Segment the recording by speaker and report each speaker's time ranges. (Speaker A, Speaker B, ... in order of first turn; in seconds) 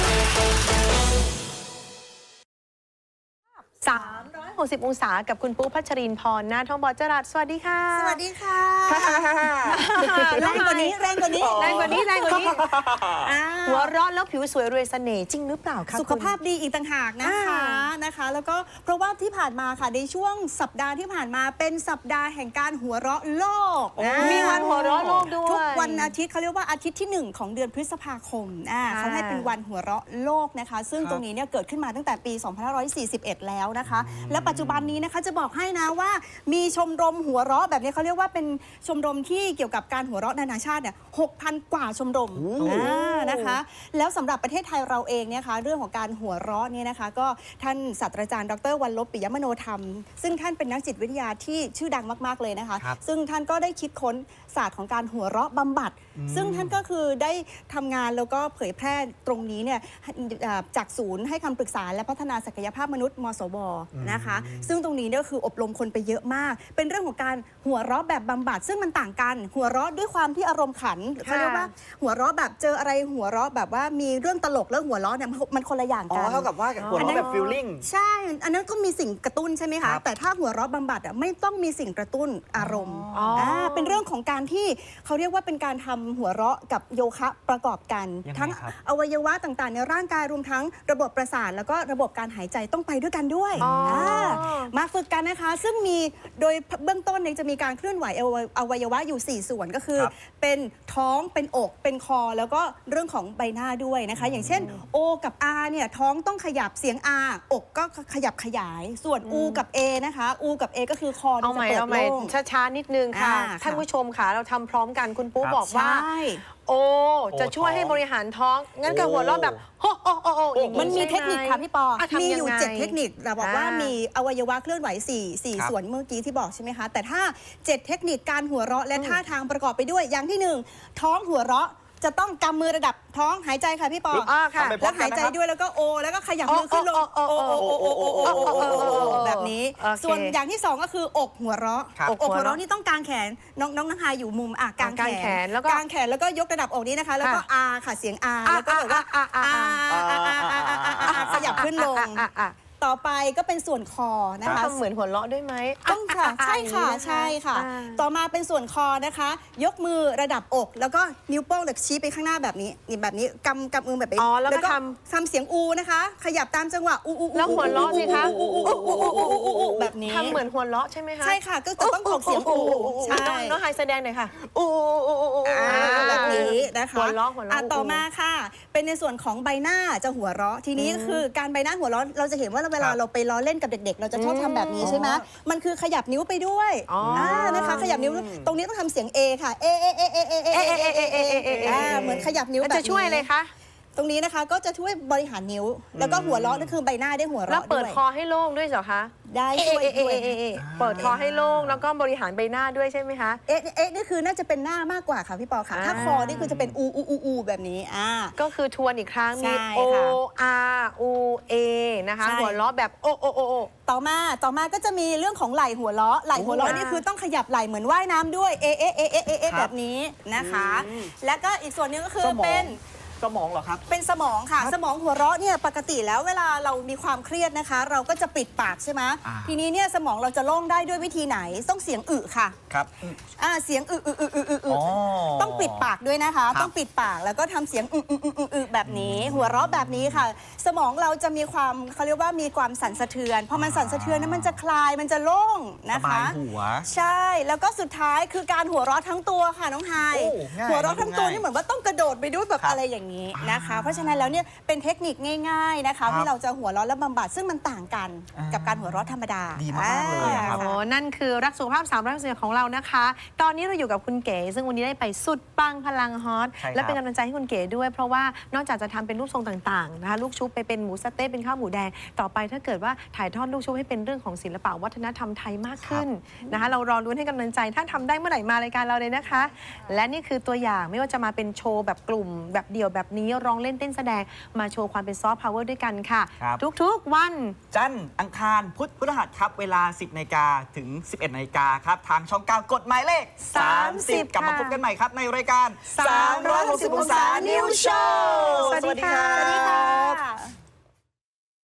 Speaker A: 3.8-8.2, 9.7-12.7, 13.7-16.4, 17.2-17.9, 24.2-26.1, 28.9-29.5, 42.6-43.6, 71.2-71.7, 76.8-77.6, 83.1-84.0, 93.6-94.7, 109.2-109.6, 111.4-124.0, 128.9-129.2, 134.2-134.8, 136.5-140.4, 142.1-142.6, 144.8-145.8, 147.2-147.5, 148.5-149.8, 151.0-152.6, 154.4-158.0, 164.2-165.0, 167.3-174.3, 175.6-178.1, 180.8-181.3, 184.1-185.2, 186.9-188.0, 190.5-193.5, 197.5-203.4, 205.7-206.6, 208.4-213.7, 216.4-217.1, 260.2-287.6, 293.5-294.8, 295.9-300.2
Speaker B: 7.9-9.3, 10.0-12.6, 13.2-13.9, 15.9-112.3, 113.1-113.8, 115.7-116.4, 120.7-154.8, 155.9-170.4, 171.2-173.6, 175.4-193.3, 194.0-198.0, 199.3-200.4, 203.5-208.4, 209.4-210.2, 212.2-212.6, 213.9-222.8, 223.9-232.6, 233.2-260.8, 296.0-300.5
Speaker C: 8.9-10.6, 11.3-13.3, 24.0-25.3, 31.0-31.2, 33.9-35.0, 42.4-42.9, 56.1-56.8, 63.9-64.7, 76.1-77.9, 82.5-83.5, 88.3-88.7, 93.5-94.4, 104.2-104.8, 117.3-118.0, 118.9-119.6, 120.5-121.1, 134.1-135.3, 137.4-139.3, 149.9-151.7, 167.4-169.9, 172.4-173.3, 174.4-176.6, 184.8-185.2, 187.0-188.6, 191.5-192.3, 195.9-196.7, 200.6-201.8, 205.8-206.8, 216.4-216.8, 219.4-219.7, 220.3-221.1, 222.2-223.8, 229.2-229.6, 232.7-233.2, 234.7-235.9, 238.8-240.3, 243.5-244.6, 245.9-246.9, 250.0-251.4, 253.3-254.4, 256.1-256.3, 258.4-260.6, 266.6-267.0, 287.7-299.8